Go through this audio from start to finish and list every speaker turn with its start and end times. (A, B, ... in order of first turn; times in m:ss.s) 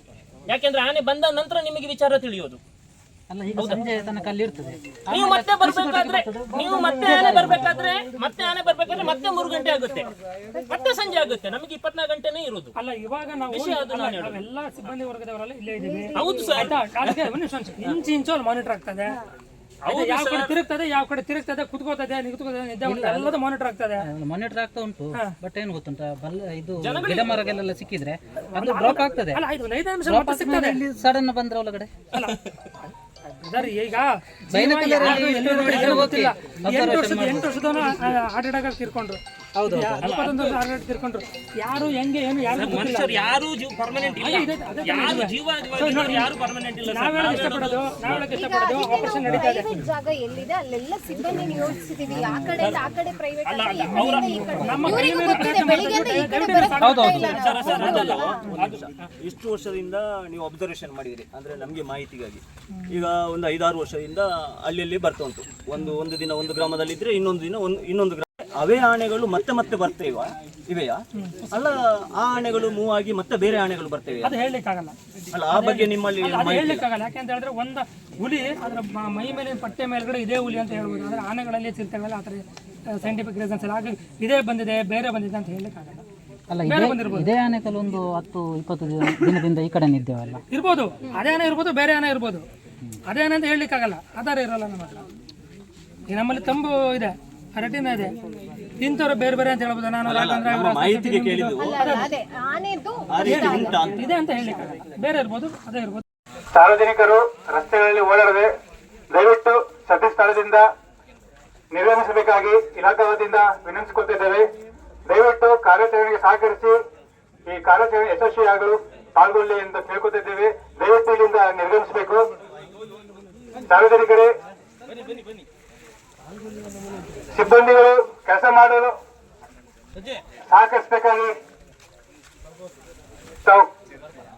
0:00.5-0:02.6 A
0:03.3-0:07.7 B
0:03.6-0:03.9 A
0:05.1-0:10.1 A
0:06.6-0:07.5 C
0:10.5-0:11.1 D
0:10.7-0:12.7 A
0:12.8-0:19.2 C
0:13.5-0:14.4 A
0:15.8-0:16.7 D
0:16.2-0:17.3 A
0:19.8-0:20.6 A
0:19.9-0:24.0 C
0:22.8-0:23.3 B
0:24.0-0:29.4 B
0:26.8-0:27.4 A
0:28.5-0:30.8 C
0:30.1-0:32.0 B
0:32.1-0:32.4 C
0:33.4-0:43.2 C
0:34.5-0:37.6 B
0:35.0-0:36.2 A
0:39.6-0:40.1 B
0:40.0-0:40.6 A
0:42.5-0:48.3 A
0:44.2-0:46.4 C
0:46.9-0:49.7 C
0:48.3-0:58.4 D
0:52.6-0:52.9 A
0:53.4-0:55.2 A
0:54.0-0:58.0 C
0:54.6-0:54.9 B
0:56.8-0:57.3 B
0:57.2-0:58.9 A
0:57.7-1:14.4 E
1:14.2-1:15.0 C
1:15.3-1:16.9 E
1:15.5-1:26.0 C
1:26.5-1:30.4 B
1:26.6-1:27.3 C
1:30.5-1:32.5 C
1:33.1-1:35.0 C
1:36.1-1:38.2 C
1:38.8-1:42.2 C
1:40.0-1:41.9 E
1:41.6-1:43.9 D
1:43.1-1:44.0 E
1:43.3-1:46.0 C
1:46.5-1:48.5 F
1:49.1-1:50.6 F
1:51.7-1:54.4 F
1:55.1-1:56.8 F
1:57.5-2:02.2 F
2:03.7-2:04.3 F
2:07.3-2:08.9 F
2:10.5-2:11.3 F
2:13.4-2:13.7 F